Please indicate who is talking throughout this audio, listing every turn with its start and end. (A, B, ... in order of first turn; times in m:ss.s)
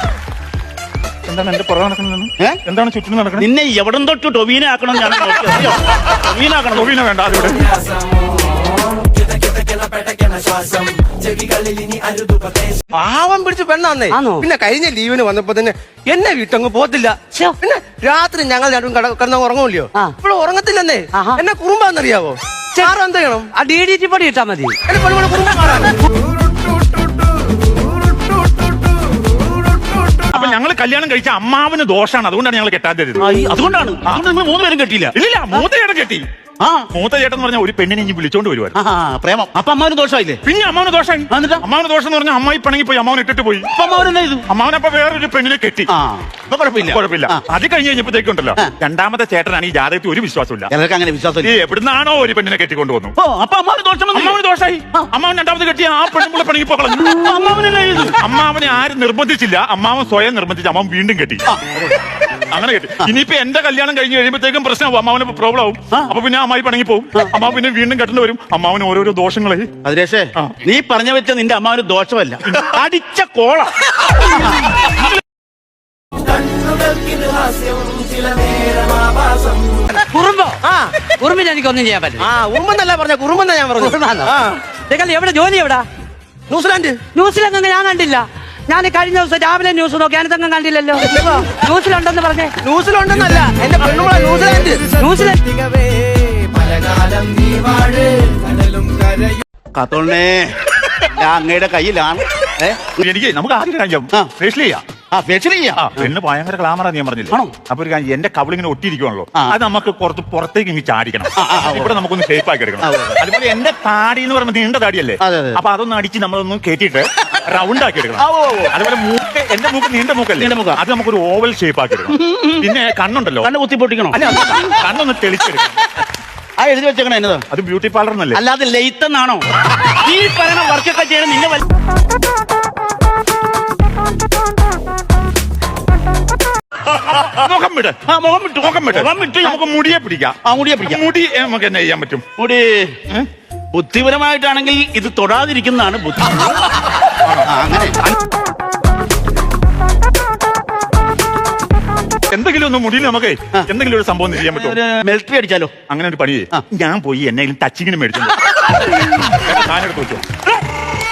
0:01.3-0:03.5 A
0:03.4-0:06.9 B
0:06.7-0:07.7 A
0:11.8-0:12.2 C
0:12.9-0:23.5 C
0:14.1-0:14.5 D
0:21.1-0:21.4 D
0:23.5-0:24.8 D
0:24.9-0:26.0 C
0:30.3-0:33.3 A
0:33.2-0:35.6 B
0:35.2-0:36.2 A
0:36.6-0:36.9 B
0:36.9-0:38.8 A
0:38.8-0:40.4 B
0:40.4-0:43.7 A
0:41.3-0:41.6 B
0:43.7-0:44.4 B
0:44.5-0:45.9 A
0:45.9-0:47.4 B
0:46.8-0:50.7 A
0:50.7-0:51.5 B
0:51.4-0:53.2 A
0:53.2-0:54.4 B
0:54.1-0:57.3 A
0:57.0-0:58.2 B
0:58.2-1:01.5 A
1:01.5-1:01.9 B
1:02.5-1:09.7 A
1:09.8-1:14.9 B
1:12.5-1:12.8 A
1:16.6-1:19.5 C
1:19.9-1:20.6 D
1:20.6-1:20.9 C
1:21.2-1:22.3 D
1:22.2-1:24.6 C
1:23.8-1:24.4 D
1:24.9-1:25.9 D
1:26.5-1:27.0 C
1:27.1-1:32.5 D
1:31.2-1:31.5 C
1:32.6-1:34.9 C
1:34.9-1:36.2 D
1:36.5-1:38.4 C
1:39.7-1:43.0 B
1:43.0-1:44.8 A
1:45.1-1:46.1 B
1:45.8-2:03.5 A
1:51.4-1:52.0 B
1:52.8-1:53.2 B
1:55.2-1:55.6 B
1:58.2-1:58.8 B
2:00.4-2:00.8 B
2:02.1-2:02.7 B
2:03.4-2:04.6 B
2:04.1-2:05.9 A
2:06.6-2:07.5 B
2:07.5-2:08.4 A
2:08.3-2:11.6 B
2:17.0-2:17.3 B
2:17.1-2:18.0 A
2:18.1-2:19.6 B
2:18.6-2:22.3 A
2:20.4-2:21.0 B
2:22.4-2:23.0 B
2:23.7-2:26.8 B
2:27.2-2:27.5 A
2:27.5-2:28.0 B
2:32.3-2:34.8 A
2:34.4-2:35.7 B
2:35.9-2:38.5 A
2:39.1-2:40.3 A